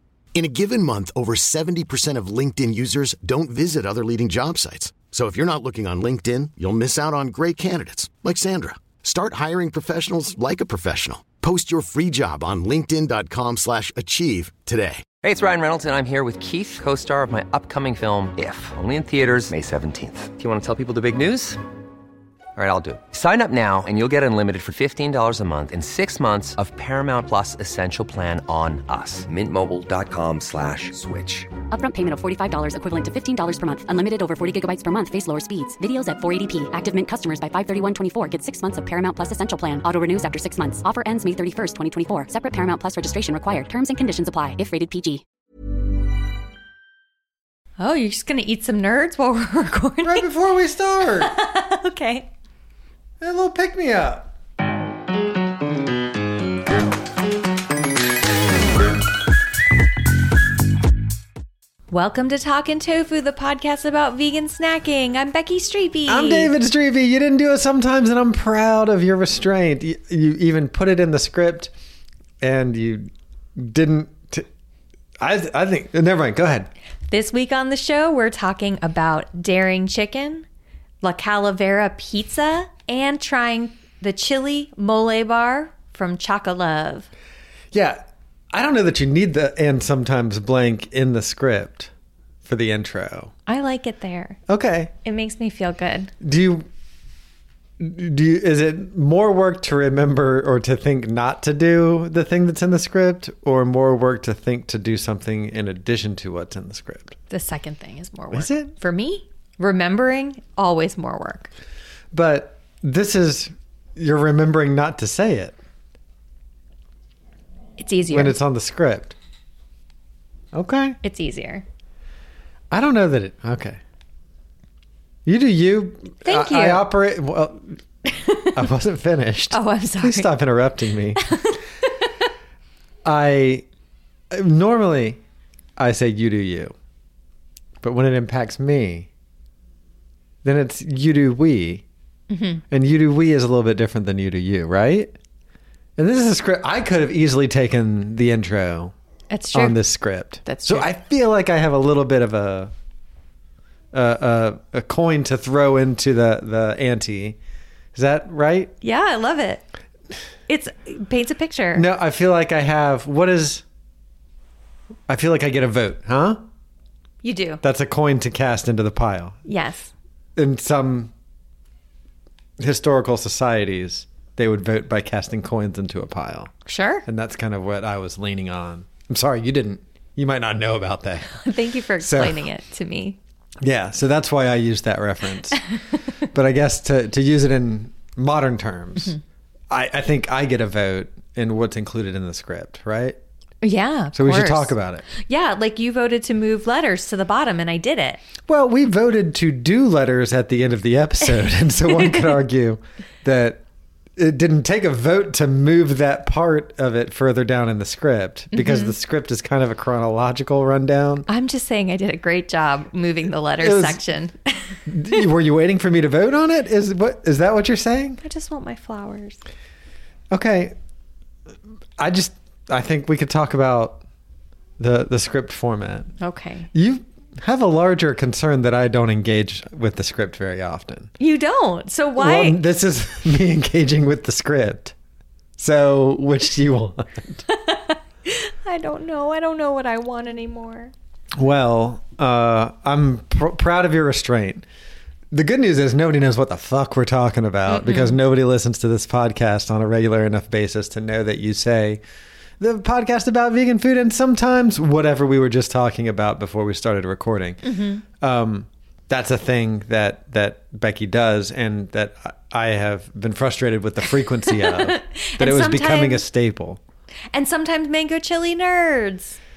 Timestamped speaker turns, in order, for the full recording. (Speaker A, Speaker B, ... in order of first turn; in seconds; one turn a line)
Speaker A: 0.3-15.1
Speaker B: 15.2-21.6
Speaker B: 22.6-31.5
Speaker C: 31.7-45.2
Speaker D: 47.8-50.3
Speaker E: 50.0-51.3
Speaker D: 51.1-52.3
Speaker E: 53.2-54.3
Speaker D: 61.9-66.5
Speaker E: 66.1-71.7
Speaker E: 72.4-74.5
Speaker E: 75.2-76.7
Speaker D: 77.1-80.5
Speaker D: 81.0-87.1
Speaker E: 87.7-91.9
Speaker E: 92.5-93.3
Speaker D: 93.5-94.4
Speaker E: 94.5-94.9
Speaker D: 95.0-96.1
Speaker E: 96.2-96.7
Speaker E: 97.8-107.2
Speaker D: 107.3-111.5
Speaker E: 108.3-108.7
Speaker E: 112.1-115.5
Speaker D: 117.8-118.4
Speaker E: 118.1-119.2
Speaker E: 120.5-121.0
Speaker D: 121.0-121.6
Speaker E: 122.7-123.8
Speaker E: 125.3-127.8
Speaker D: 126.2-126.9
Speaker D: 128.1-128.6
Speaker E: 128.5-131.2
Speaker D: 129.5-130.3
Speaker D: 131.3-131.6
Speaker E: 133.0-133.7
Speaker E: 134.3-135.2
Speaker E: 135.8-136.7
Speaker E: 137.8-139.1
Speaker E: 140.4-141.8
Speaker D: 142.3-142.6
Speaker E: 142.7-145.1
Speaker E: 146.0-148.9
Speaker D: 149.3-149.8
Speaker E: 149.5-152.7
Speaker D: 150.4-150.9
Speaker E: 153.9-157.4
Speaker E: 157.9-158.7
Speaker D: 158.8-159.6
Speaker D: 160.5-161.9
Speaker E: 161.7-163.6
Speaker E: 165.1-166.4
Speaker D: 167.2-167.6
Speaker E: 167.6-169.4
Speaker D: 169.5-169.9
Speaker E: 170.4-171.1
Speaker E: 172.6-176.5
Speaker D: 176.7-177.1
Speaker E: 177.1-181.4
Speaker D: 181.4-183.2
Speaker E: 182.0-182.4
Speaker E: 183.6-185.6
Speaker E: 186.3-189.2
Speaker E: 189.7-193.2
Speaker D: 193.6-198.2
Speaker E: 194.1-195.1
Speaker E: 198.5-203.6
Speaker D: 201.7-202.4
Speaker E: 204.2-211.3
Speaker D: 208.5-208.9
Speaker D: 211.3-214.8
Speaker E: 213.6-214.0
Speaker E: 214.9-218.2
Speaker D: 218.2-219.4
Speaker E: 220.3-220.8
Speaker E: 222.0-224.0
Speaker E: 224.8-226.1
Speaker D: 226.2-226.7
Speaker E: 226.7-231.1
Speaker D: 231.2-232.6
Speaker E: 232.2-234.9
Speaker E: 235.6-237.4
Speaker D: 237.5-240.9
Speaker E: 241.3-244.7
Speaker E: 245.3-252.0
Speaker D: 247.7-248.2
Speaker E: 252.6-257.6
Speaker D: 257.6-258.0
Speaker E: 258.2-266.8
Speaker D: 264.3-266.2
Speaker D: 267.3-269.4